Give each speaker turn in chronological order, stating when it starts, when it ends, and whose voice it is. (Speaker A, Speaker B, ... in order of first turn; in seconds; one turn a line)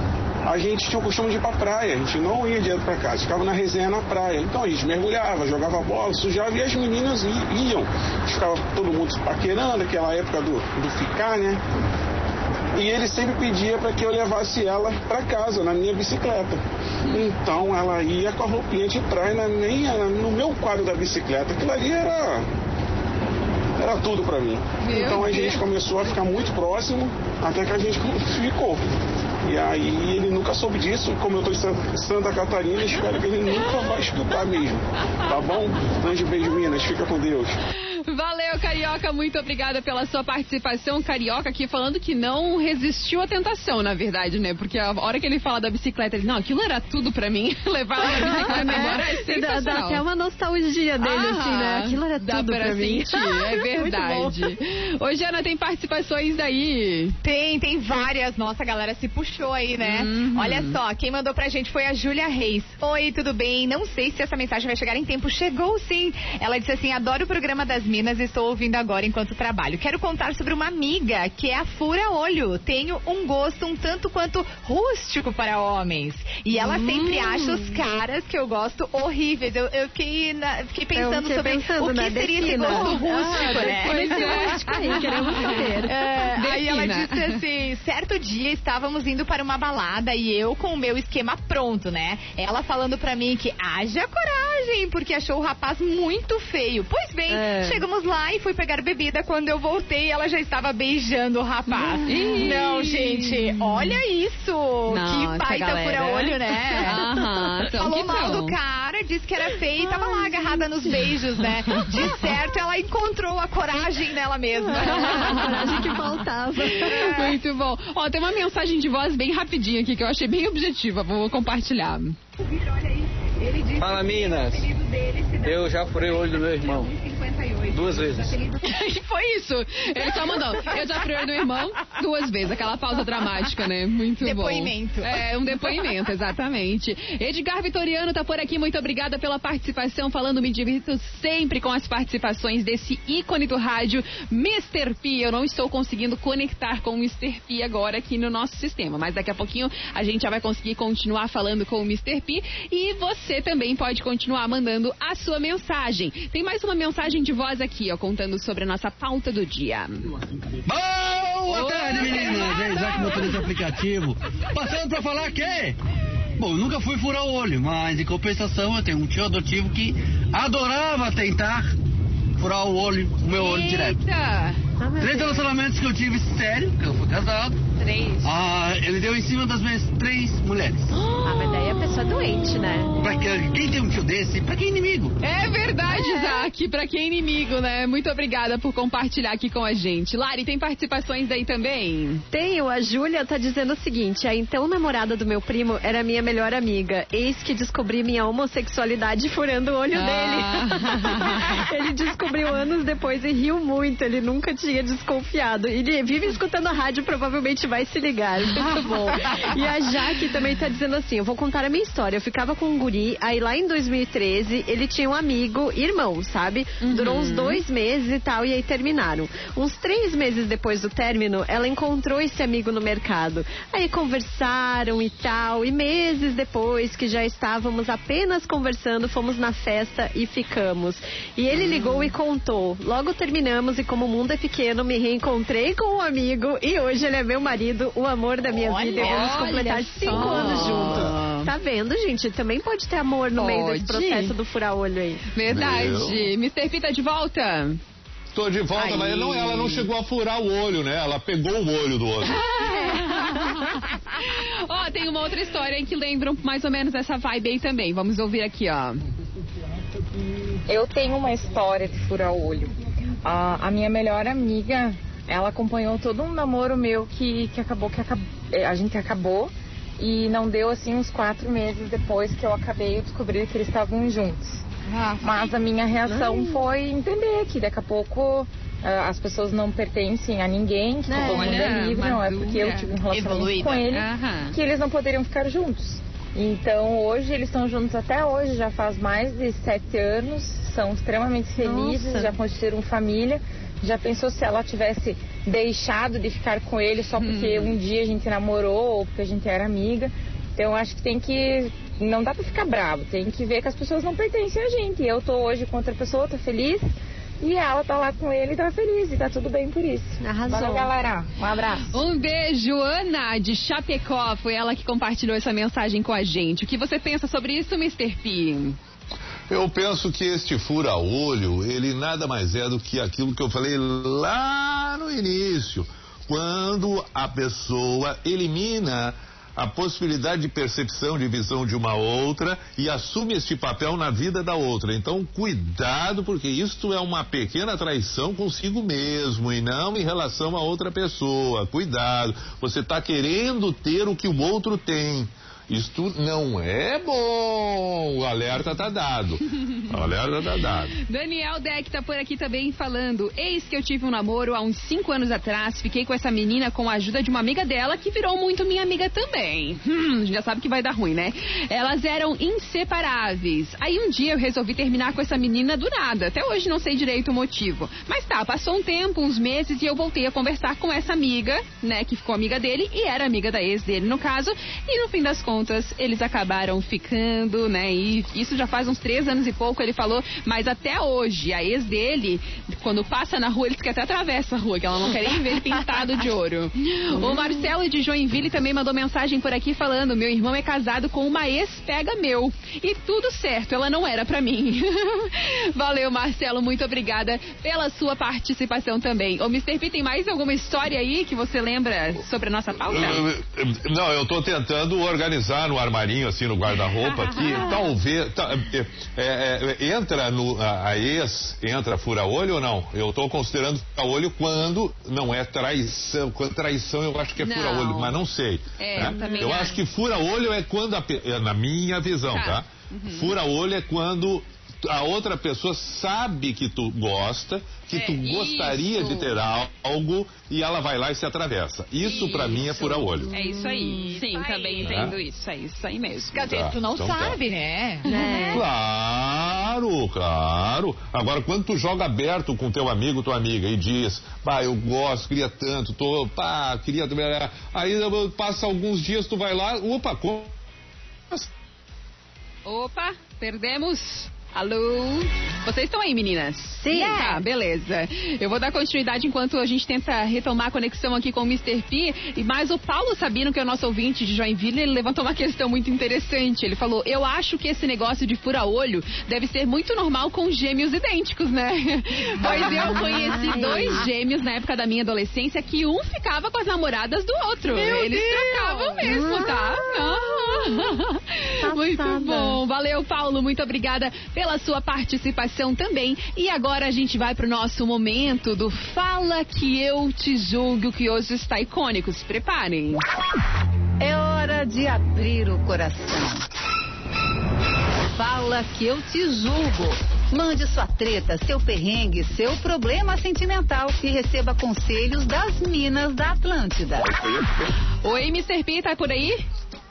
Speaker A: 0.5-11.6
Speaker A: 12.7-16.6
Speaker A: 17.1-22.4
Speaker A: 23.8-28.8
Speaker B: 24.8-25.6
Speaker A: 29.4-37.6
Speaker B: 37.9-50.0
Speaker C: 48.0-54.5
Speaker B: 51.0-57.1
Speaker D: 57.2-107.0
Speaker B: 59.8-60.8
Speaker C: 76.5-77.7
Speaker C: 80.9-85.9
Speaker B: 82.5-87.4
Speaker C: 97.3-97.8
Speaker B: 102.0-103.9
Speaker B: 104.9-108.6
Speaker D: 107.7-115.6
Speaker C: 109.8-110.6
Speaker C: 114.6-117.2
Speaker B: 114.8-116.0
Speaker B: 116.6-122.2
Speaker D: 116.8-117.3
Speaker E: 123.8-124.7
Speaker E: 125.4-126.9
Speaker E: 127.7-128.4
Speaker B: 128.6-160.1
Speaker D: 134.2-135.2
Speaker F: 160.7-165.8
Speaker B: 161.5-163.3
Speaker F: 166.4-171.7
Speaker F: 172.4-174.0
Speaker B: 173.3-174.6
Speaker C: 174.8-175.4
Speaker F: 175.0-177.6
Speaker B: 177.8-178.3
Speaker F: 178.2-180.9
Speaker B: 180.9-182.1
Speaker C: 181.2-183.0
Speaker F: 183.0-185.2
Speaker B: 185.2-192.2
Speaker C: 185.9-186.4
Speaker C: 192.3-245.2
Speaker B: 199.9-201.6
Speaker B: 216.8-217.6
Speaker B: 231.5-232.1
Speaker D: 238.5-239.5
Speaker B: 238.9-241.5
Speaker G: 240.1-240.9
Speaker B: 243.3-244.3
Speaker B: 245.3-247.8
Speaker G: 245.4-246.3
Speaker G: 248.3-252.4
Speaker B: 248.8-249.8
Speaker B: 252.3-259.0
Speaker C: 252.6-253.5
Speaker H: 260.7-262.7
Speaker H: 263.2-274.6
Speaker D: 274.9-275.5
Speaker H: 275.2-306.9
Speaker C: 276.0-276.7
Speaker C: 281.1-281.6
Speaker B: 281.1-282.9
Speaker D: 283.1-283.8
Speaker B: 283.8-284.6
Speaker C: 291.6-292.4
Speaker B: 297.2-297.8
Speaker H: 307.4-311.9
Speaker C: 310.2-310.9
Speaker B: 311.9-318.8
Speaker G: 319.5-350.9
Speaker B: 351.0-403.3
Speaker G: 402.8-433.3
Speaker B: 407.1-407.8
Speaker B: 417.4-418.2
Speaker B: 418.8-419.8
Speaker C: 419.0-419.6
Speaker B: 422.3-423.3
Speaker B: 427.9-429.4
Speaker B: 432.0-436.5
Speaker C: 433.2-434.1
Speaker D: 434.0-435.1
Speaker G: 434.8-435.1
Speaker D: 436.3-438.1
Speaker G: 436.4-437.4
Speaker C: 438.1-438.7
Speaker B: 438.1-438.6
Speaker G: 438.5-450.5
Speaker B: 452.6-493.0
Speaker C: 456.8-457.4
Speaker C: 472.4-474.1
Speaker C: 477.7-481.0
Speaker C: 481.6-482.6
Speaker I: 494.0-496.4
Speaker I: 498.2-507.0
Speaker G: 507.0-507.8
Speaker B: 508.0-509.4